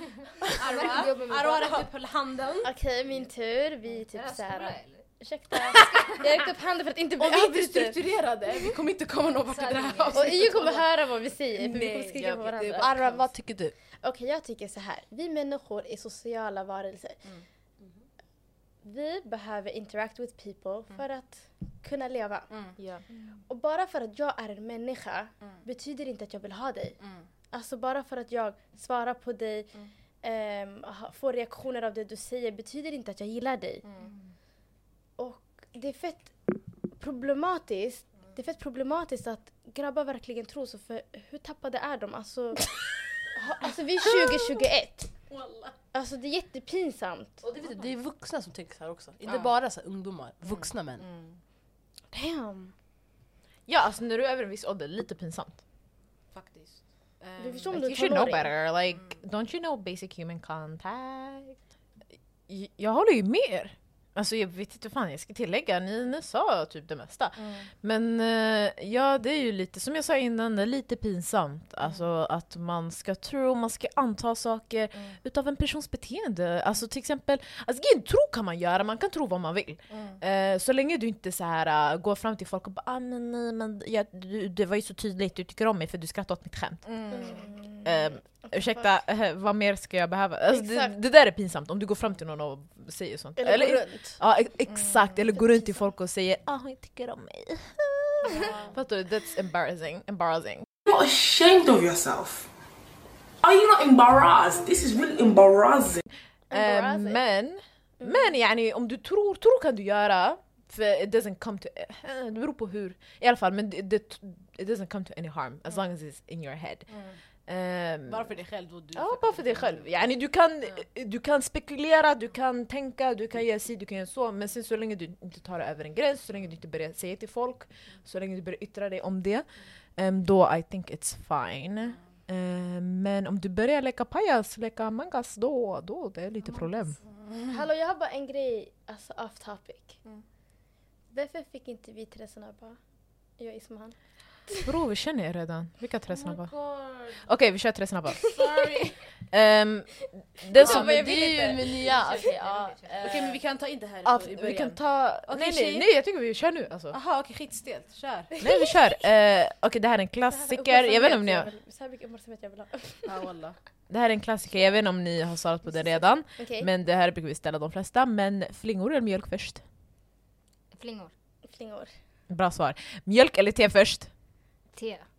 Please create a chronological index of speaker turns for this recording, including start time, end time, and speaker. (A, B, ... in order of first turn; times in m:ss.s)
0:00.4-0:01.9 A
0:00.5-0:02.7 B
0:02.6-0:08.7 C
0:04.0-0:05.1 A
0:05.7-0:06.2 A
0:07.2-0:10.8 B
0:09.5-0:10.7 A
0:10.1-0:13.0 C
0:11.6-0:12.9 D
0:11.7-0:12.0 B
0:12.8-0:13.7 E
0:14.0-0:17.2 C
0:18.8-0:22.5 C
0:22.5-0:22.8 B
0:23.5-0:27.0 C
0:27.0-0:27.3 B
0:27.5-0:33.8 C
0:33.8-0:34.3 B
0:35.2-0:42.7 C
0:43.3-0:45.1 C
0:45.3-0:45.8 B
0:45.9-0:47.4 C
0:47.4-0:47.9 B
0:47.5-0:51.0 E
0:49.3-0:49.5 B
0:50.5-0:51.4 B
0:52.1-0:52.7 C
0:53.7-0:55.6 D
0:56.3-0:57.8 B
0:57.4-0:58.5 C
0:57.7-1:01.6 D
1:02.5-1:40.7 D
1:19.9-1:20.2 B
1:26.9-1:27.3 B
1:27.1-1:28.9 C
1:30.5-1:30.9 C
1:33.4-1:34.2 C
1:34.8-1:35.9 C
1:40.9-1:42.5 F
1:43.4-1:46.0 F
1:46.5-1:47.2 C
1:46.5-1:56.9 D
1:48.0-1:48.4 C
1:56.9-1:57.2 B
1:57.5-1:58.3 D
1:58.1-2:00.0 B
1:59.0-2:09.5 D
2:10.0-2:17.0 D
2:16.4-2:16.9 A
2:17.1-2:17.6 B
2:17.5-2:20.0 C
2:21.1-2:22.8 C
2:23.4-2:24.0 C
2:24.6-2:26.5 D
2:26.1-2:27.2 B
2:27.2-2:28.4 D
2:28.3-2:29.0 B
2:29.3-2:31.5 D
2:30.5-2:31.6 C
2:30.6-2:33.4 E
2:31.9-2:33.1 A
2:33.0-2:35.9 B
2:34.0-2:37.0 D
2:36.9-2:38.4 B
2:38.4-2:41.5 D
2:40.3-2:43.3 C
2:43.1-2:43.6 B
2:43.9-2:49.6 D
2:45.7-2:46.7 C
2:50.7-2:51.1 A
2:51.5-2:51.9 C
2:52.3-2:54.1 D
2:54.7-2:55.1 A